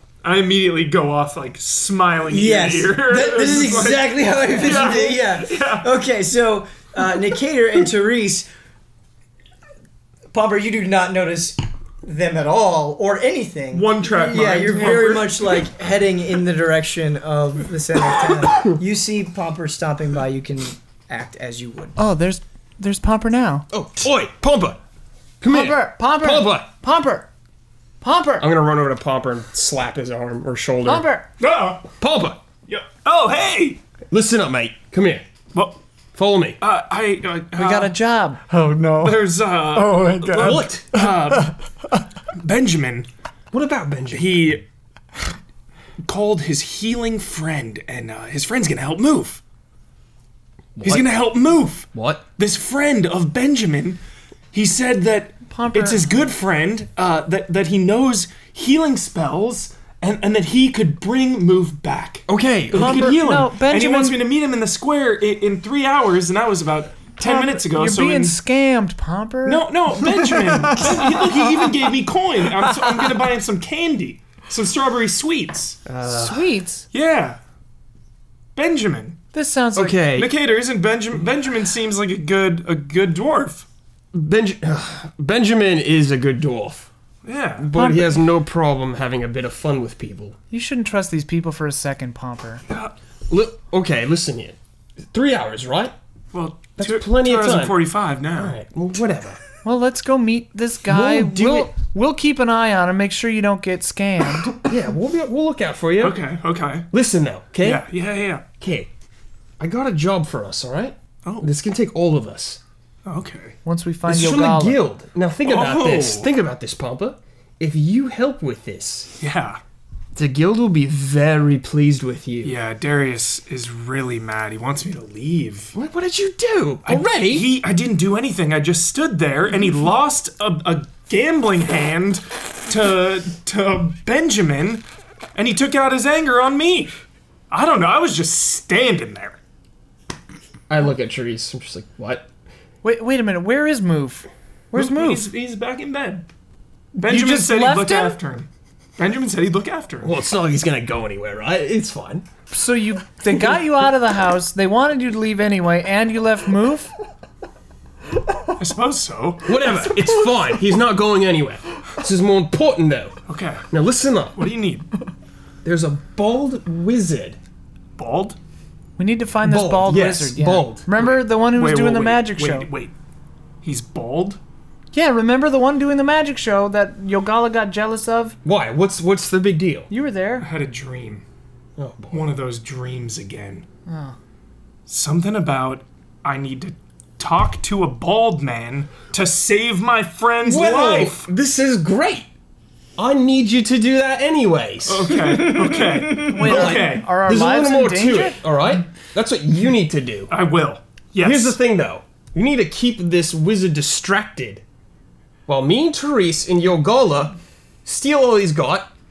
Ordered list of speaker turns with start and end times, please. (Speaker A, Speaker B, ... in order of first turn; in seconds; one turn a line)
Speaker A: 0.2-5.9
Speaker B: 2.3-8.5
Speaker B: 10.3-22.0
Speaker A: 13.7-15.5
Speaker C: 22.0-23.7
Speaker D: 23.7-24.8
Speaker D: 25.4-26.7
Speaker C: 25.5-27.3
Speaker C: 28.0-28.5
Speaker D: 28.4-31.1
Speaker C: 30.9-31.3
Speaker A: 31.4-31.9
Speaker D: 32.0-32.4
Speaker A: 32.7-33.8
Speaker D: 34.1-35.2
Speaker A: 35.5-35.8
Speaker D: 36.1-36.6
Speaker A: 36.6-37.9
Speaker C: 37.5-38.4
Speaker E: 38.5-39.2
Speaker A: 38.9-41.5
Speaker E: 39.7-41.4
Speaker D: 40.2-40.9
Speaker A: 42.3-43.1
Speaker D: 43.5-44.4
Speaker A: 44.1-44.6
Speaker A: 46.0-49.4
Speaker D: 50.8-51.2
Speaker A: 50.8-54.0
Speaker D: 51.9-52.2
Speaker A: 54.5-68.4
Speaker C: 55.5-56.0
Speaker D: 62.3-63.4
Speaker C: 62.7-64.2
Speaker C: 67.2-69.6
Speaker A: 69.5-75.8
Speaker E: 70.7-71.0
Speaker B: 75.9-76.3
Speaker D: 76.0-76.5
Speaker C: 76.0-76.9
Speaker A: 76.9-77.4
Speaker A: 78.6-79.2
Speaker C: 79.3-80.0
Speaker D: 79.8-80.3
Speaker A: 80.1-83.7
Speaker D: 84.1-86.9
Speaker A: 87.2-87.7
Speaker D: 87.6-90.4
Speaker C: 87.7-88.2
Speaker C: 90.5-92.6
Speaker D: 93.3-94.6
Speaker D: 95.1-95.9
Speaker A: 96.3-98.6
Speaker D: 96.8-99.4
Speaker C: 99.6-104.6
Speaker D: 100.9-101.7
Speaker D: 104.6-106.2
Speaker A: 106.0-106.9
Speaker D: 106.9-107.9
Speaker A: 107.6-108.5
Speaker D: 108.6-108.9
Speaker D: 109.6-112.6
Speaker A: 111.2-111.5
Speaker A: 113.1-113.6
Speaker C: 113.7-114.8
Speaker D: 114.1-119.1
Speaker A: 115.4-116.3
Speaker A: 119.2-119.6
Speaker D: 120.2-122.6
Speaker A: 122.4-125.7
Speaker D: 125.7-127.5
Speaker A: 126.9-134.8
Speaker A: 135.3-136.9
Speaker A: 137.5-139.4
Speaker D: 140.7-142.3
Speaker C: 142.8-145.3
Speaker A: 144.7-146.3
Speaker A: 146.9-150.1
Speaker C: 147.0-148.2
Speaker D: 150.0-152.3
Speaker C: 152.5-156.9
Speaker A: 158.6-159.8
Speaker D: 159.5-163.2
Speaker A: 163.3-163.7
Speaker D: 163.7-164.4
Speaker A: 164.4-164.9
Speaker D: 165.6-167.4
Speaker A: 168.0-168.4
Speaker C: 169.0-172.7
Speaker D: 169.4-170.8
Speaker A: 171.0-172.9
Speaker A: 173.6-174.4
Speaker C: 174.9-178.4
Speaker D: 178.4-179.9
Speaker C: 179.9-180.5
Speaker A: 180.4-181.2
Speaker D: 181.8-182.3
Speaker A: 182.1-183.7
Speaker C: 183.9-184.2
Speaker A: 184.9-191.3
Speaker D: 190.4-192.3
Speaker D: 193.0-195.6
Speaker A: 194.9-197.1
Speaker E: 195.2-196.3
Speaker C: 196.2-198.4
Speaker D: 196.3-200.3
Speaker A: 200.3-201.6
Speaker D: 201.2-204.6
Speaker D: 205.5-208.9